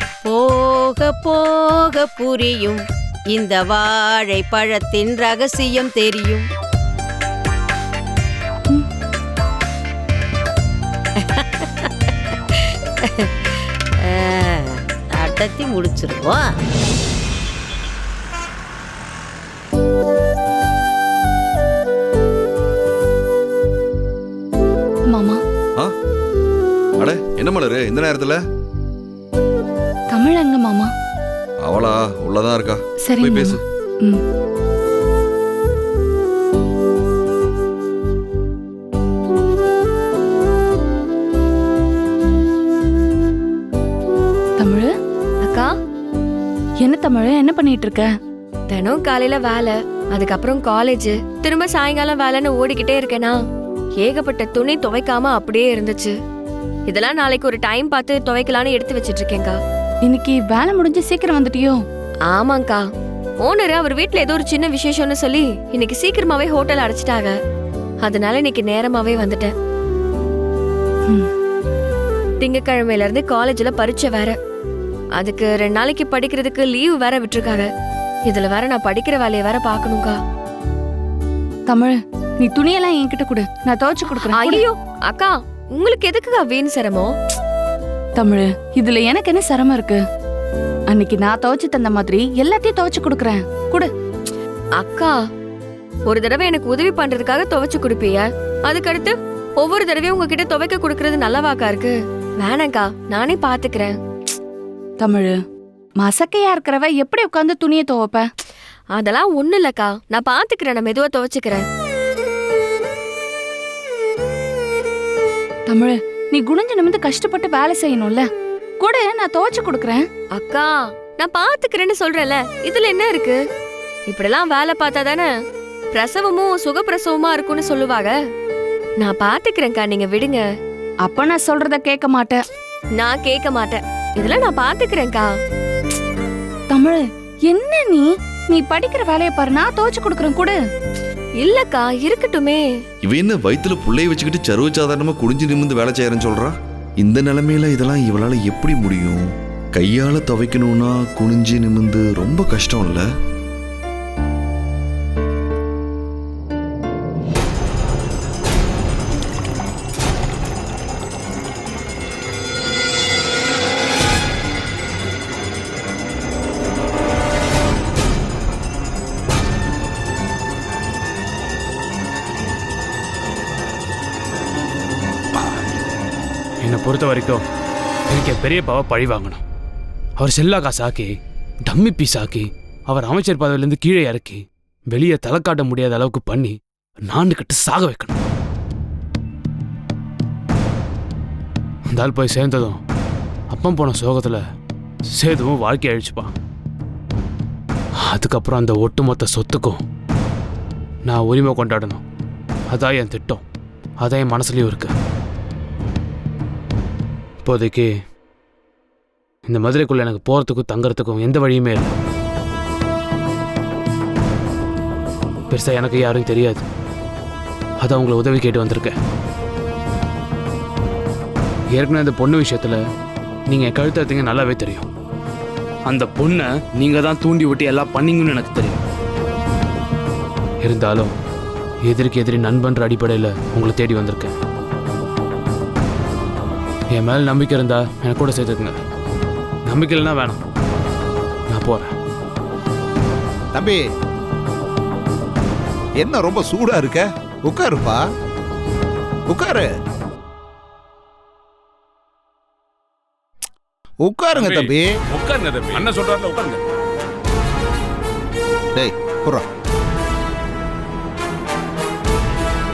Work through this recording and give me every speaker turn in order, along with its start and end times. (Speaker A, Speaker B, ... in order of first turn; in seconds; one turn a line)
Speaker A: 0.2-2.8
Speaker A: 3.3-6.4
Speaker A: 11.2-16.4
Speaker B: 25.1-25.4
Speaker C: 27.0-28.4
Speaker B: 30.1-30.9
Speaker C: 31.6-33.6
Speaker B: 33.1-34.2
Speaker B: 44.6-44.9
Speaker D: 45.4-45.7
Speaker B: 46.8-48.1
Speaker D: 48.7-53.4
Speaker D: 54.0-56.1
Speaker D: 56.9-59.6
Speaker B: 60.0-61.8
Speaker D: 62.3-62.8
Speaker D: 63.4-67.3
Speaker D: 68.0-69.5
Speaker D: 72.4-74.4
Speaker D: 75.2-77.7
Speaker D: 78.3-80.2
Speaker B: 81.7-84.6
Speaker D: 84.3-87.1
Speaker B: 88.2-90.0
Speaker B: 90.9-93.9
Speaker D: 94.8-95.1
Speaker D: 96.1-104.0
Speaker B: 105.0-105.3
Speaker B: 106.0-108.2
Speaker D: 108.9-111.6
Speaker B: 115.7-118.2
Speaker B: 118.8-120.0
Speaker D: 120.3-123.4
Speaker D: 124.1-125.3
Speaker D: 125.9-128.1
Speaker D: 129.0-130.4
Speaker B: 131.0-132.4
Speaker D: 133.0-135.3
Speaker B: 136.7-140.6
Speaker D: 141.4-142.6
Speaker C: 143.0-153.1
Speaker E: 176.6-177.4
Speaker E: 178.1-179.4
Speaker E: 180.2-181.1
Speaker E: 181.7-188.2
Speaker E: 191.9-192.8
Speaker E: 193.5-194.4
Speaker E: 195.1-196.3
Speaker E: 198.0-199.8
Speaker E: 201.1-202.0
Speaker E: 202.7-203.4
Speaker E: 204.0-204.9
Speaker E: 207.4-207.9
Speaker E: 209.5-211.9
Speaker E: 215.5-216.7
Speaker E: 217.8-219.0
Speaker E: 221.7-222.8
Speaker E: 223.5-224.8
Speaker E: 225.8-228.8
Speaker E: 230.6-231.1
Speaker E: 231.8-234.4
Speaker E: 236.9-238.8
Speaker E: 239.7-240.4
Speaker E: 241.5-241.9
Speaker F: 243.5-243.8
Speaker F: 246.0-248.0
Speaker F: 249.3-249.7
Speaker F: 254.0-254.9
Speaker G: 254.3-256.6
Speaker F: 258.8-259.4